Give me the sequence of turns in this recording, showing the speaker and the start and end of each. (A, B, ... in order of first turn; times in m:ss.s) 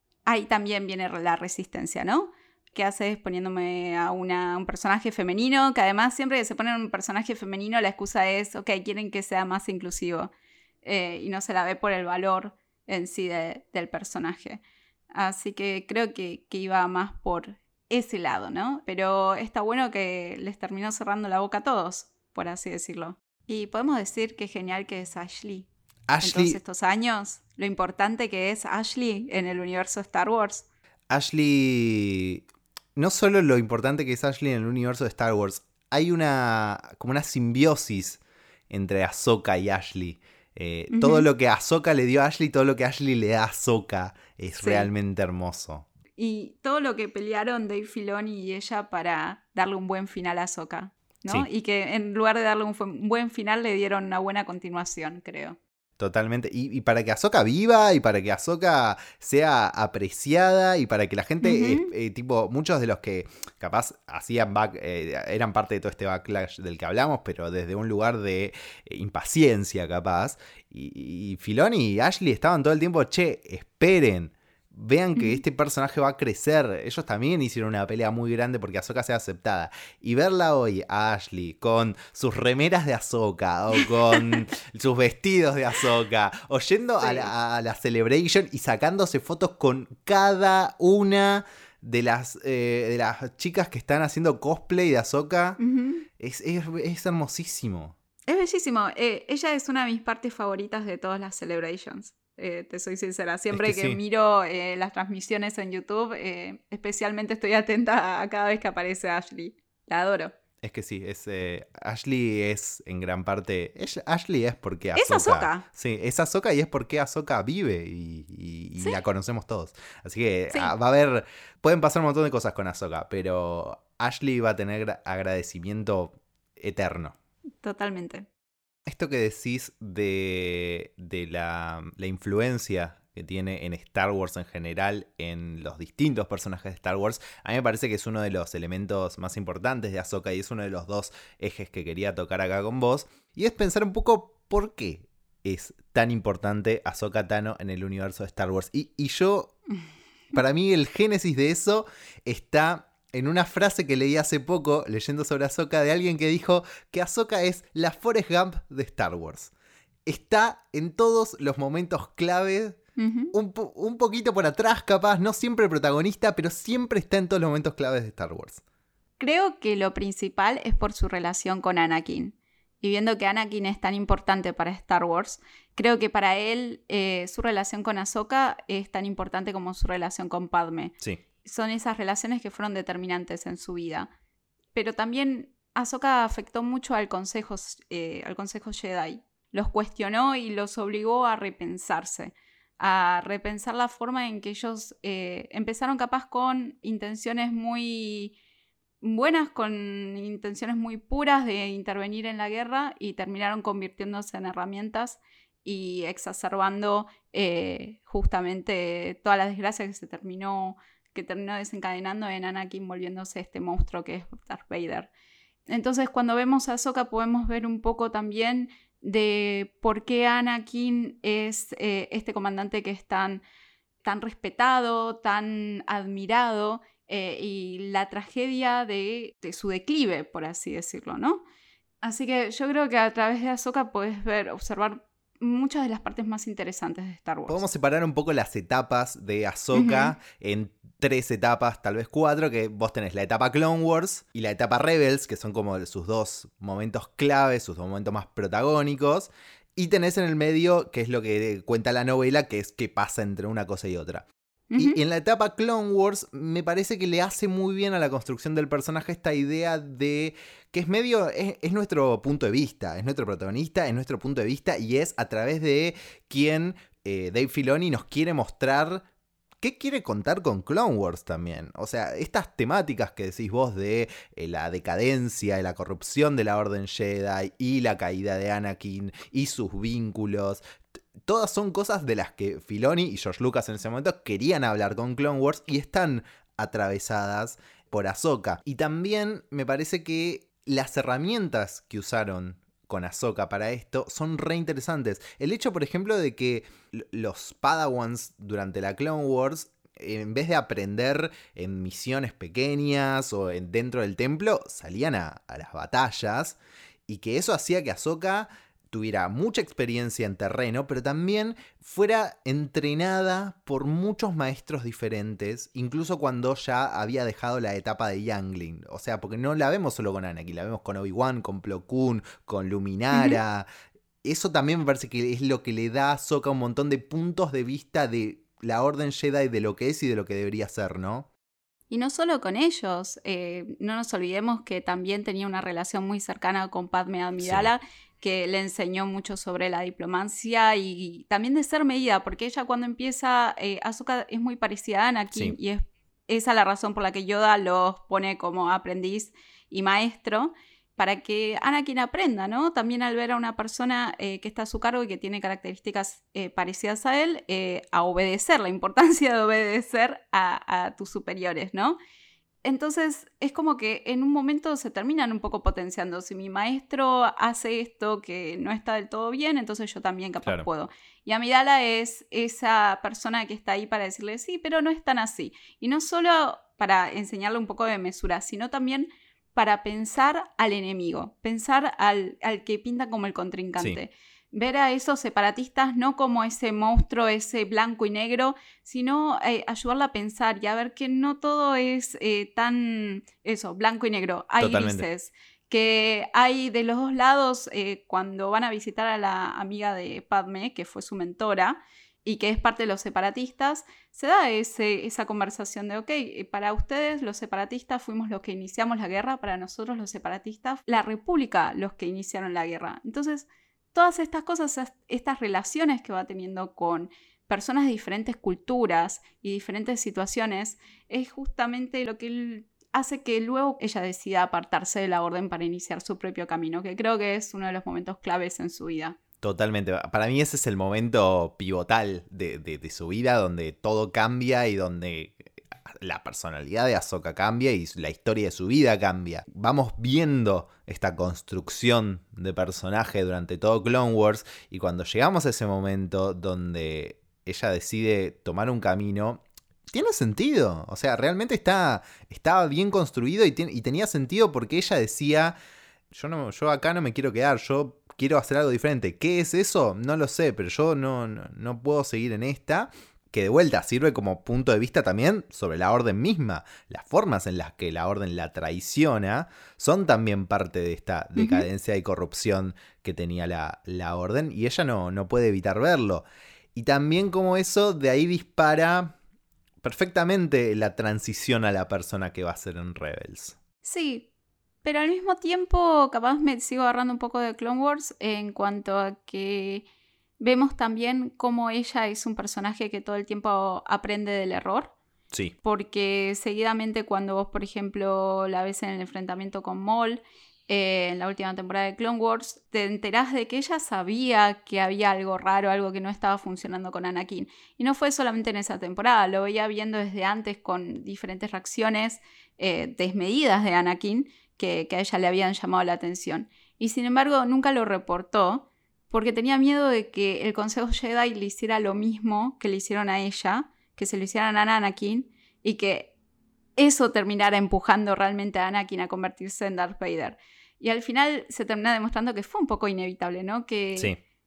0:00.3-0:10.3 A
0:10.8-0:14.6 A
0:15.1-0:25.7 A
0:26.1-0:26.6 B
0:26.2-0:30.6 A
0:31.1-0:32.4 B
0:33.0-0:45.9 B
0:40.9-0:41.3 A
0:44.6-0:44.9 A
0:46.2-0:55.6 A
0:56.0-1:35.6 B
1:01.4-1:01.9 A
1:15.2-1:15.4 A
1:27.0-1:27.3 A
1:35.6-1:36.1 A
1:36.2-1:38.0 B
1:38.3-1:50.3 A
1:43.5-1:44.0 B
1:50.6-2:07.2 B
1:55.0-1:55.7 A
2:07.6-2:08.3 A
2:08.9-2:29.6 B
2:30.3-2:39.5 B
2:40.1-2:42.8 B
2:43.0-2:43.3 A
2:43.3-2:48.6 B
2:49.2-3:04.1 A
3:04.7-3:18.4 A
3:19.0-3:35.1 A
3:35.7-3:43.4 A
3:44.0-3:51.4 A
3:52.0-3:57.6 A
3:57.5-4:14.3 B
3:59.7-4:00.2 A
4:14.7-4:15.0 A
4:14.8-4:29.1 B
4:29.6-4:40.6 B
4:41.2-5:23.7 B
5:23.1-5:23.4 A
5:24.2-5:31.3 B
5:31.9-6:02.0 A
5:37.4-5:37.7 B
6:02.6-7:09.2 A
6:34.6-6:35.1 B
7:09.4-7:15.4 B
7:16.0-7:35.6 B
7:36.1-7:59.2 B
7:51.4-7:51.7 A
7:59.8-8:03.6 B
8:03.8-8:04.3 A
8:04.8-8:09.9 A
8:10.4-8:14.9 A
8:15.6-8:46.1 A
8:46.8-8:54.1 A